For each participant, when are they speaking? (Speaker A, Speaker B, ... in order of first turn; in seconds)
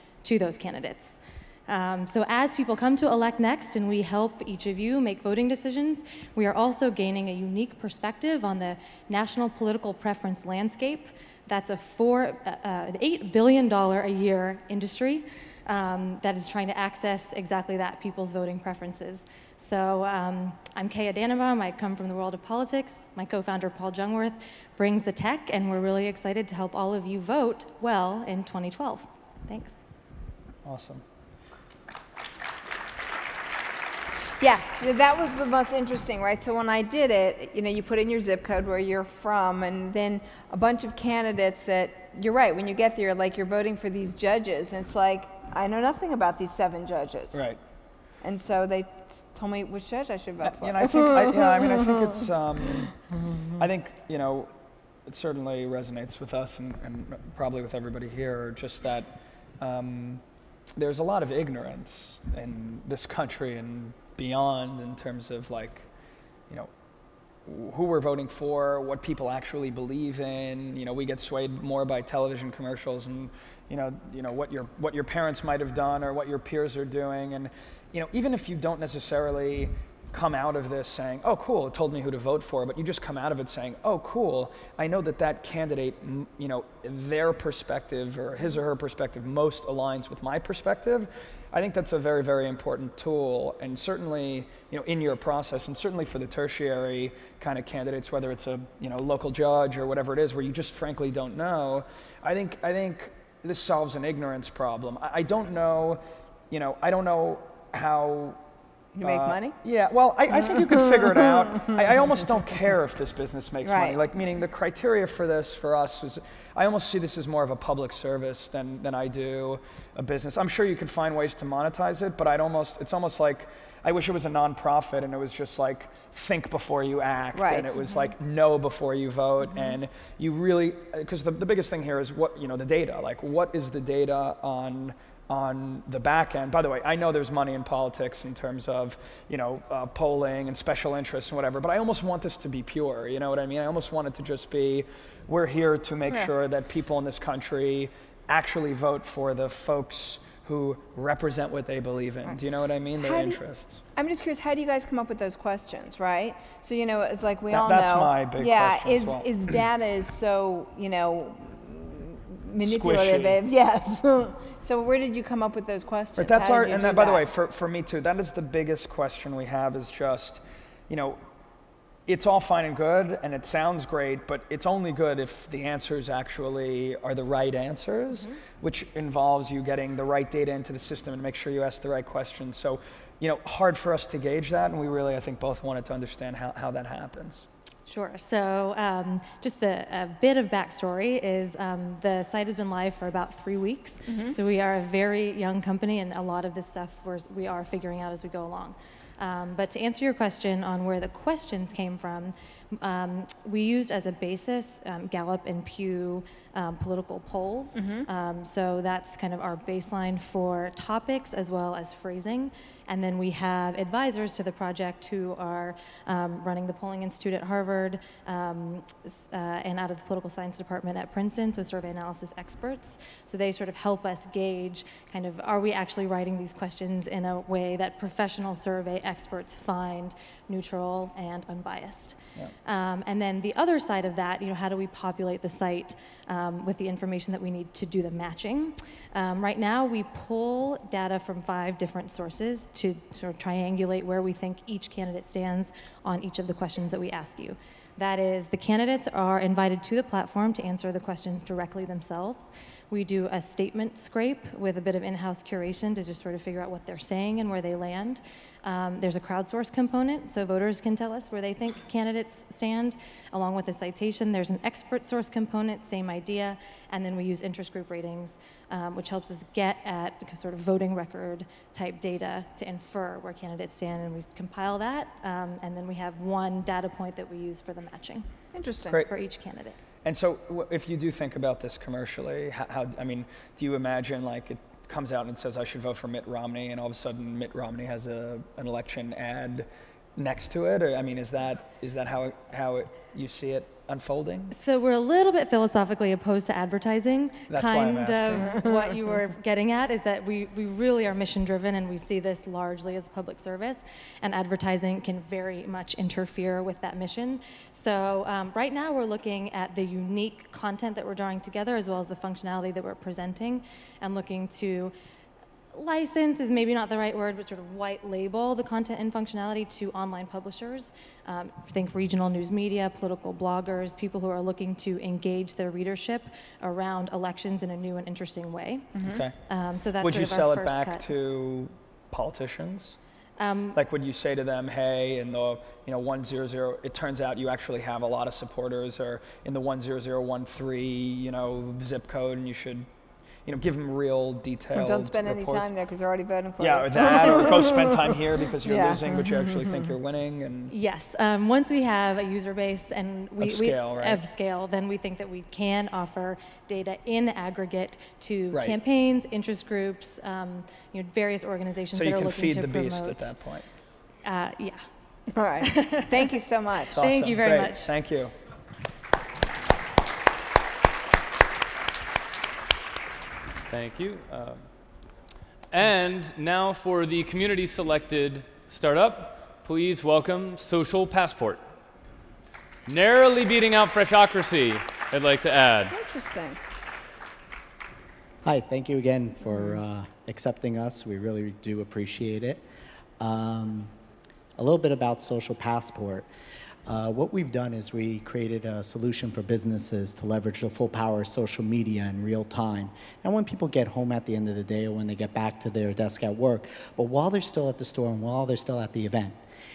Speaker A: 0.2-29.8, 187.9-278.3, 278.9-279.8, 294.5-314.9, 315.7-331.1, 333.4-333.8, 350.7-363.4, 364.2-364.8, 365.6-366.2, 366.9-367.9
Speaker B: 30.6-31.0, 47.3-47.6, 50.4-54.5, 55.0-60.2, 60.8-65.9, 67.5-108.4, 109.0-153.8, 157.5-159.3, 162.6-163.4, 166.2-171.2, 172.1-187.4, 280.0-294.5, 297.5-298.6, 329.1-329.3, 330.0-333.0, 333.7-342.9, 343.4-345.7, 346.6-350.7, 353.4-354.2, 361.9-363.6, 366.9-368.3
Speaker C: 34.4-47.5, 48.2-51.9, 108.9-109.5, 113.6-114.0, 127.3-127.8, 153.0-153.4, 153.9-167.2, 194.1-194.3, 207.7-208.1, 278.5-279.0, 328.9-329.2, 344.7-348.1, 348.6-349.7, 365.3-367.0, 385.9-386.6
Speaker D: 373.7-374.6, 375.7-381.6, 382.9-385.9
Speaker E: 388.4-392.6, 393.2-393.9, 394.6-396.3, 396.9-409.4